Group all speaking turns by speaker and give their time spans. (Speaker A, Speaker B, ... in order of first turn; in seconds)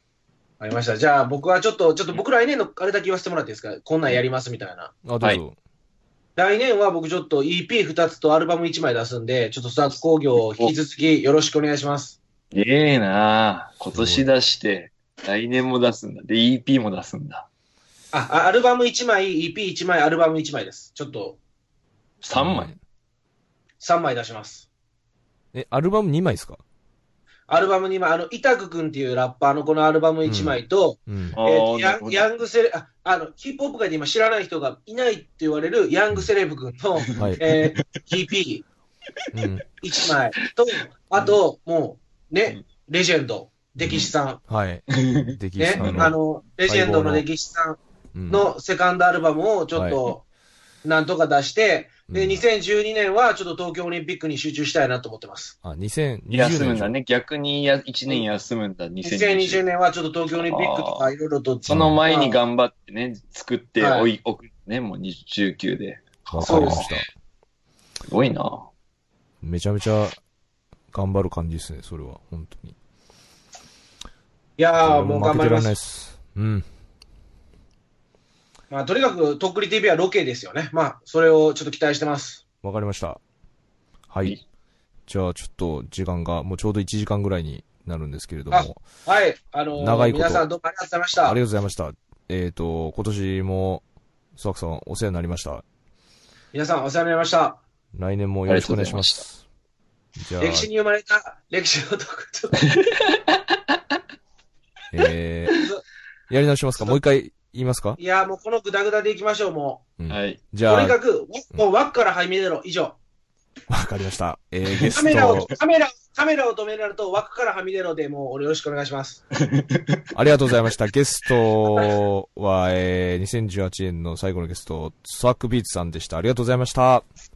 Speaker A: 0.6-4.9, 6.3-12.2, 18.1-21.4, 23.8-24.6, 27.5-38.6, 39.8-44.4, 45.6-50.2, 50.8-55.5, 59.0-62.4, 63.8-64.1, 66.4-66.9, 74.6-75.8, 78.7-82.4, 88.5-91.4, 96.5-97.6, 100.4-102.6, 105.5-105.8, 108.0-109.8, 110.6-113.0, 115.0-119.2
Speaker B: 5.0-5.6, 13.9-14.2, 22.3-22.8, 25.5-26.6, 30.2-31.4, 37.2-37.4, 39.3-39.6, 43.8-47.2, 48.1-48.5, 49.7-50.0, 52.1-52.4, 55.6-56.9, 61.7-62.0, 66.3-67.1, 69.4-70.2, 70.9-72.8, 74.8-76.6, 82.6-83.2, 84.1-84.4, 85.1-88.8, 89.8-90.5, 91.2-93.8, 94.3-95.6, 97.9-99.4, 100.2-100.7, 104.9-105.6, 106.3-108.0, 110.0-111.0, 113.7-115.5, 120.1-127.0
Speaker C: 10.4-10.7, 12.5-17.5, 22.2-22.7, 31.3-32.3, 37.2-38.0, 43.8-44.1, 45.1-46.2, 56.3-59.6, 60.4-61.1, 61.6-67.0, 68.1-68.7, 98.5-99.2, 110.1-110.4, 114.7-115.5